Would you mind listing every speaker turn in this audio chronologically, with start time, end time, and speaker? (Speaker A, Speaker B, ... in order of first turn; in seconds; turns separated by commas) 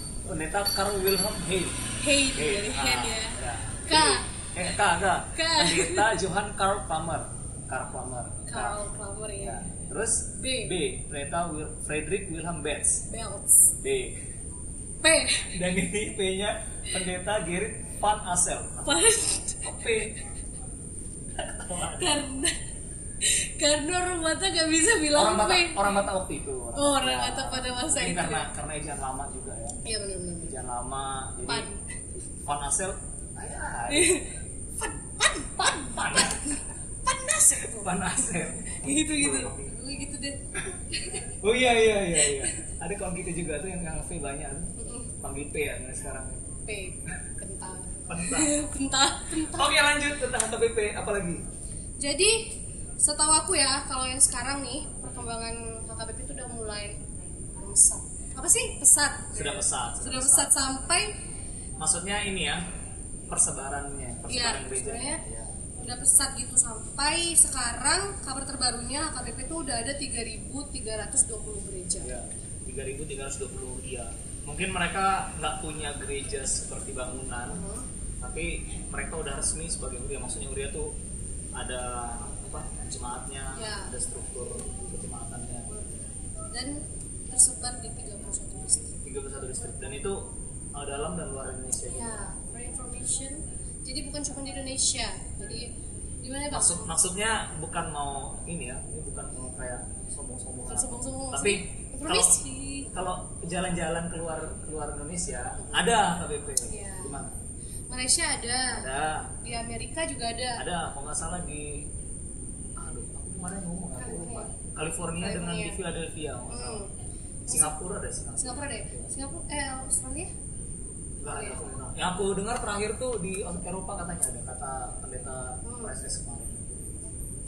Speaker A: 0.3-1.8, Speaker B: 2.0-3.4, Speaker A: 2.3-8.8, Speaker B: 3.9-4.2, Speaker B: 5.3-6.1, Speaker B: 8.5-9.7, Speaker A: 9.4-13.0, Speaker B: 10.4-10.7, Speaker B: 13.1-13.7, Speaker A: 13.8-14.2, Speaker B: 15.0-15.5, Speaker A: 15.5-20.1, Speaker B: 18.8-20.0, Speaker A: 21.4-22.2, Speaker B: 21.8-22.6, Speaker B: 23.2-26.1, Speaker A: 25.1-29.8, Speaker B: 26.8-28.5, Speaker B: 29.8-30.5, Speaker A: 30.4-31.7, Speaker B: 31.4-31.8, Speaker A: 32.5-34.2, Speaker B: 33.9-41.3, Speaker A: 35.6-36.6, Speaker A: 37.6-39.8, Speaker A: 41.3-46.4, Speaker B: 42.1-42.7, Speaker B: 44.8-45.1, Speaker B: 46.7-49.8, Speaker A: 48.1-48.6, Speaker A: 49.3-51.4, Speaker B: 52.0-52.4, Speaker B: 53.0-57.0, Speaker B: 57.6-61.1, Speaker A: 59.3-60.5, Speaker A: 61.8-62.6, Speaker A: 63.3-65.7, Speaker B: 64.3-65.2, Speaker B: 65.8-72.1, Speaker A: 72.0-77.6, Speaker B: 77.5-77.9, Speaker A: 78.2-80.9, Speaker A: 81.6-85.7, Speaker B: 83.5-83.9, Speaker B: 85.7-85.9, Speaker B: 86.5-89.0, Speaker A: 89.0-92.2, Speaker B: 91.9-95.7, Speaker B: 96.2-96.9, Speaker A: 96.5-102.4, Speaker B: 100.7-102.9, Speaker A: 102.9-107.3, Speaker B: 105.6-107.3, Speaker B: 107.9-108.8, Speaker A: 108.7-109.4, Speaker B: 109.4-110.6, Speaker A: 110.6-111.9, Speaker A: 112.8-116.8, Speaker B: 114.0-114.5, Speaker B: 115.2-115.8, Speaker B: 116.5-116.9, Speaker B: 117.5-117.7, Speaker A: 117.5-119.1, Speaker B: 118.4-120.3, Speaker A: 121.2-127.0, Speaker B: 121.2-121.6, Speaker B: 125.6-125.9